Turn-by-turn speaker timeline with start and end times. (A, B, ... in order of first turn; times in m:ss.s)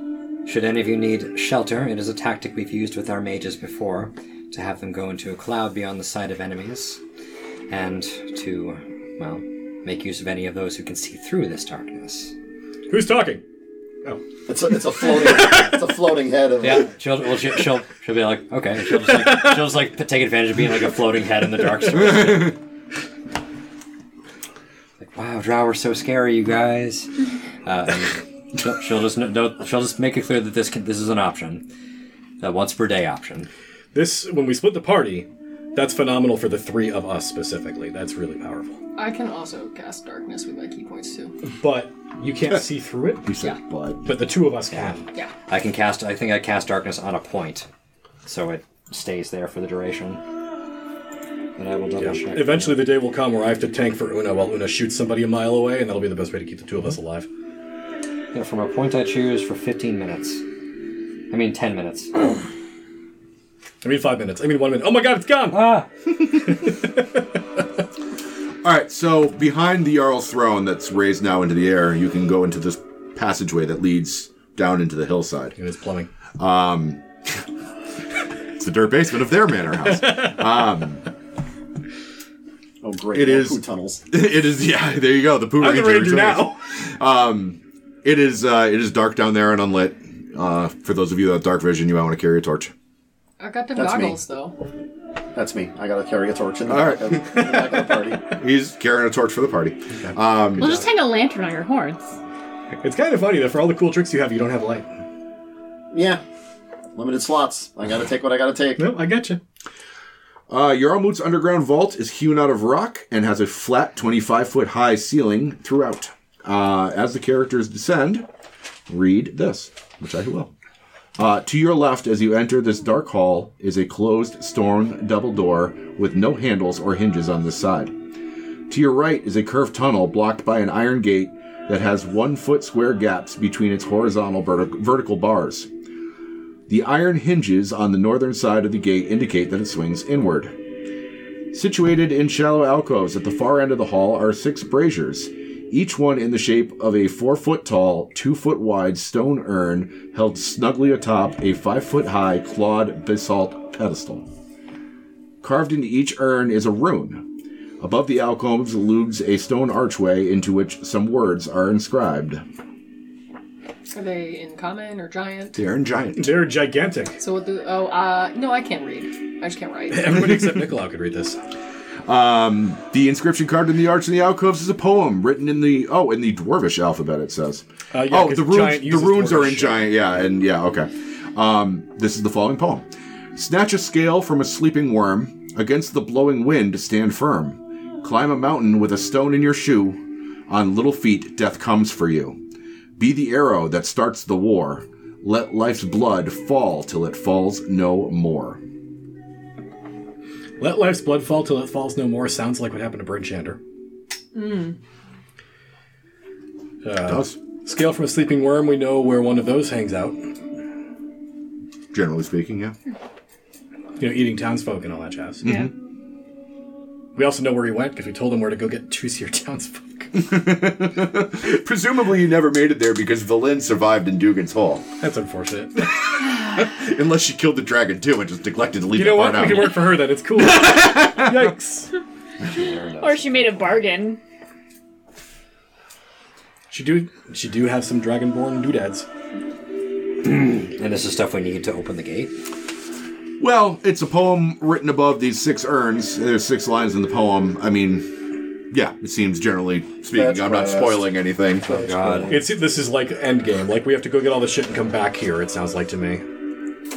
0:00.4-0:07.0 A
0:07.7-0:12.3 A
0:12.9-0:13.4 B
0:14.5-0:16.9 C
0:16.6-0:22.6 A
0:25.0-0:27.1 A
0:27.6-0:31.6 A
0:32.4-0:33.5 A
0:33.9-0:38.8 B
0:39.0-0:41.4 D
0:41.4-0:43.3 B
0:43.2-0:44.1 E
0:44.0-0:45.1 B
0:44.7-0:47.7 A
0:48.2-0:50.2 A
0:51.6-0:52.8 A
0:52.0-0:57.3 B
0:58.3-1:00.4 A
1:01.3-1:02.2 A
1:03.8-1:05.8 B
1:05.5-1:05.9 A
1:06.4-1:07.2 B
1:08.6-1:15.6 E
1:15.6-1:16.1 B
1:16.4-1:17.0 E
1:18.6-1:21.0 E
1:22.8-1:24.0 C
1:23.1-1:32.7 E
1:25.6-1:26.6 B
1:33.4-1:34.6 D
1:33.8-1:34.2 C
1:35.3-1:38.2 C
1:36.7-1:40.8 E
1:40.0-1:40.8 B
1:40.6-1:42.2 F
1:42.8-1:44.9 B
1:45.9-1:46.2 C
1:47.0-1:48.9 C
1:48.8-1:49.4 B
1:50.5-1:58.3 E
1:58.9-2:00.5 E
2:01.2-2:08.0 E
2:08.7-2:15.7 E
2:16.7-2:20.6 E
2:21.5-2:34.3 E
2:35.4-2:37.2 E
2:37.8-2:42.4 E
2:43.9-2:45.6 D
2:45.5-2:46.4 E
2:46.2-2:47.2 B
2:47.2-2:50.1 D
2:49.9-2:51.4 B
2:50.1-2:50.8 E
2:52.1-3:12.4 E
2:57.9-2:59.9 B
3:13.0-3:18.6 E
3:20.6-3:23.6 B
3:24.3-3:24.8 D
3:26.8-3:30.2 B
3:27.0-3:27.4 E
3:31.9-3:32.8 E
3:34.0-3:35.7 B
3:35.4-3:35.7 E
3:37.2-3:40.1 B
3:40.2-3:44.9 E
3:45.0-3:45.9 B
3:46.1-3:51.5 E
3:48.9-3:51.9 B
3:52.4-3:53.8 A
3:53.0-3:54.2 F
3:56.7-3:59.1 B
4:00.2-4:02.4 A
4:03.4-4:08.2 E
4:08.7-4:11.7 E
4:10.1-4:12.4 C
4:11.7-4:12.4 A
4:12.3-4:16.2 B